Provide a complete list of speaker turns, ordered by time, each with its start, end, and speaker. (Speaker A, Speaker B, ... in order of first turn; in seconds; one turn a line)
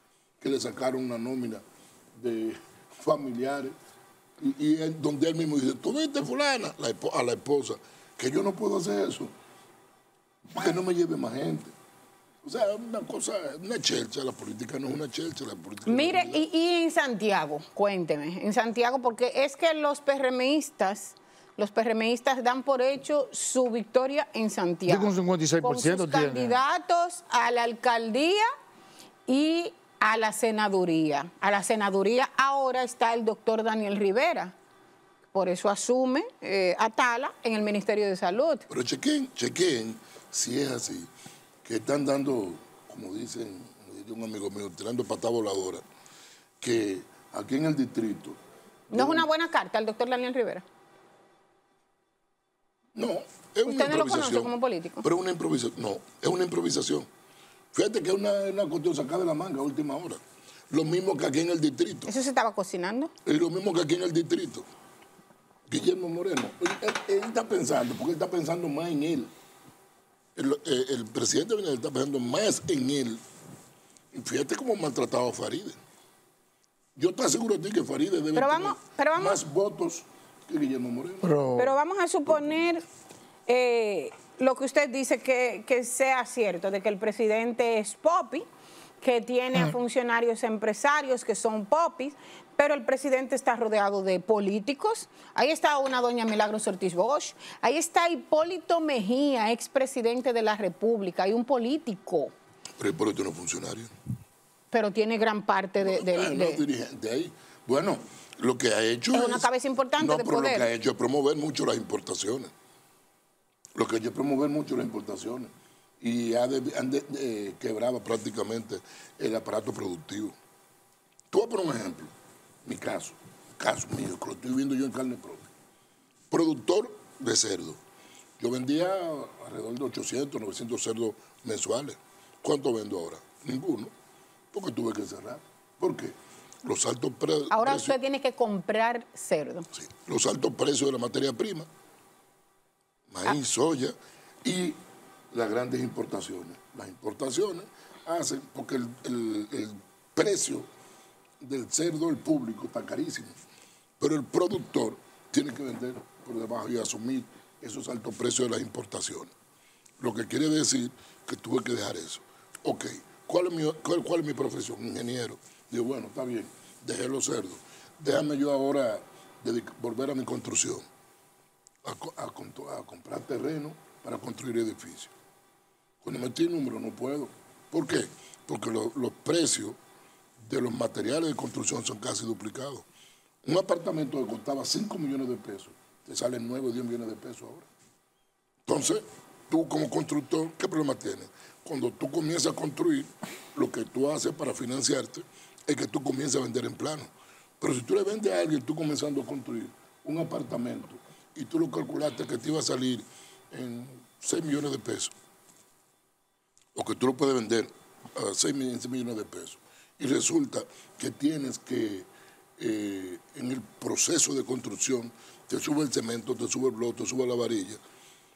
Speaker A: 0.4-1.6
Speaker A: 2.1-3.8
Speaker A: 4.4-9.3
Speaker A: 10.4-11.7
Speaker A: 12.4-16.5
Speaker B: 15.9-28.5
Speaker C: 24.9-26.6
Speaker B: 29.3-34.5
Speaker B: 35.3-38.7
Speaker A: 38.7-41.1
Speaker A: 41.6-45.8
Speaker A: 46.6-48.4
Speaker A: 48.9-49.3
Speaker B: 48.9-50.6
Speaker A: 53.0-57.1
Speaker B: 53.7-55.1
Speaker A: 57.7-62.1
Speaker B: 62.1-63.1
Speaker A: 63.2-64.7
Speaker A: 65.7-69.3
Speaker A: 70.4-73.2
Speaker A: 74.1-75.8
Speaker A: 77.0-81.3
Speaker B: 78.4-79.4
Speaker C: 81.2-81.7
Speaker B: 81.6-82.8
Speaker B: 83.5-88.5
Speaker B: 89.0-102.3
Speaker A: 102.8-103.9
Speaker B: 104.7-106.6
Speaker A: 105.8-112.5
Speaker B: 109.1-110.7
Speaker A: 113.8-120.4
Speaker A: 121.3-122.1
Speaker A: 122.7-125.5
Speaker A: 126.3-127.8
Speaker A: 128.4-133.9
Speaker A: 134.5-138.0
Speaker B: 137.5-139.7
Speaker A: 139.7-141.7
Speaker A: 143.1-144.8
Speaker A: 145.3-150.7
Speaker A: 151.4-153.4
Speaker A: 154.0-159.3
Speaker A: 160.0-170.8
Speaker A: 171.8-175.1
Speaker A: 176.0-179.8
Speaker A: 180.4-182.9
Speaker A: 183.4-187.7
Speaker A: 188.7-205.1
Speaker A: 206.8-217.8